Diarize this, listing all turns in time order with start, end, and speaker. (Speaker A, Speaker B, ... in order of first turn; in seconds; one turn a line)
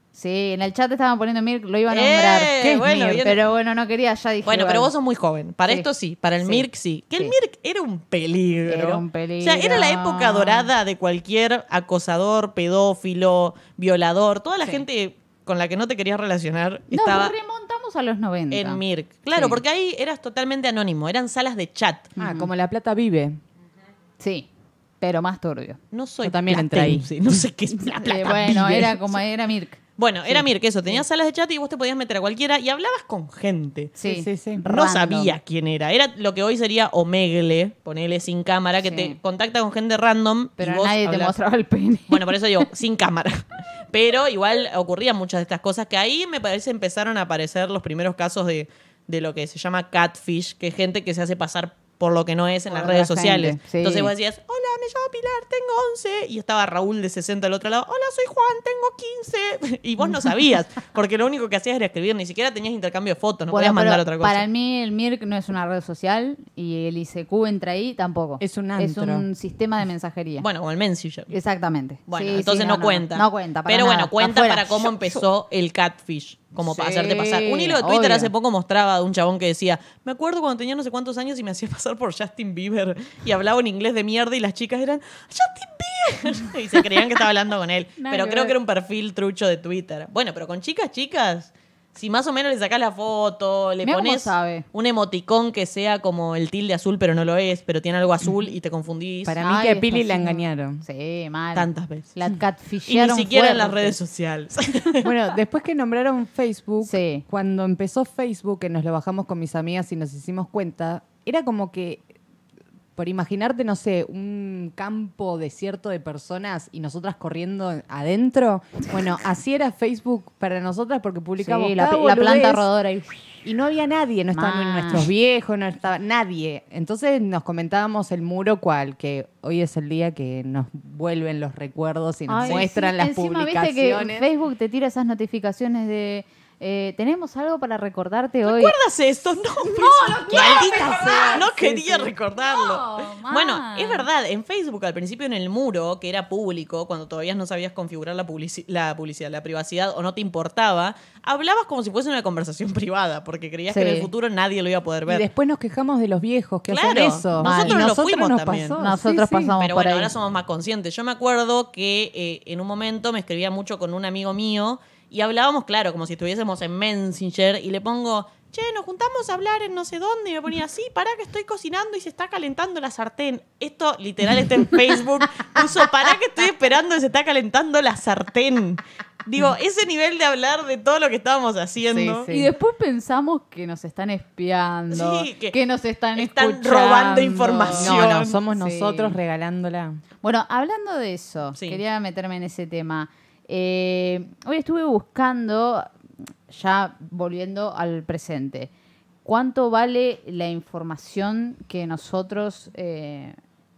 Speaker A: 0.1-2.6
Speaker B: 1.9-3.4
Speaker C: 2.5-3.3
Speaker A: 3.2-4.9
Speaker B: 4.4-17.3
Speaker A: 6.4-6.7
Speaker A: 8.7-10.7
Speaker A: 16.9-18.8
Speaker B: 18.5-22.1
Speaker A: 22.2-22.5
Speaker C: 22.2-23.4
Speaker A: 24.2-24.5
Speaker A: 25.0-25.8
Speaker B: 25.9-28.9
Speaker C: 26.2-27.1
Speaker A: 27.7-31.0
Speaker C: 28.4-28.9
Speaker B: 30.0-34.0
Speaker A: 34.0-35.3
Speaker C: 34.0-34.6
Speaker B: 34.7-41.3
Speaker A: 38.8-39.2
Speaker A: 40.6-42.6
Speaker B: 42.1-64.4
Speaker A: 52.7-54.1
Speaker A: 63.5-70.5
Speaker C: 68.4-69.2
Speaker B: 70.4-71.3
Speaker A: 71.3-75.2
Speaker B: 72.1-99.4
Speaker A: 76.6-78.3
Speaker A: 88.0-88.5
Speaker A: 93.8-94.7
Speaker C: 99.2-100.8
Speaker A: 99.4-104.0
Speaker B: 101.5-102.1
Speaker B: 102.9-105.1
Speaker C: 105.0-112.0
Speaker A: 106.8-107.2
Speaker C: 113.0-122.7
Speaker A: 121.4-123.5
Speaker C: 123.4-134.3
Speaker A: 124.3-125.1
Speaker A: 132.3-138.8
Speaker B: 138.4-155.2
Speaker A: 139.5-144.1
Speaker C: 140.3-142.1
Speaker A: 153.7-154.1
Speaker C: 155.1-159.5
Speaker B: 156.7-158.8
Speaker A: 157.3-157.9
Speaker A: 158.8-160.1
Speaker B: 159.6-182.3
Speaker C: 181.9-182.5
Speaker A: 182.3-189.2
Speaker B: 184.9-185.6
Speaker B: 186.2-188.4
Speaker C: 187.7-190.0
Speaker A: 190.2-195.9
Speaker A: 196.5-198.7
Speaker A: 199.2-203.4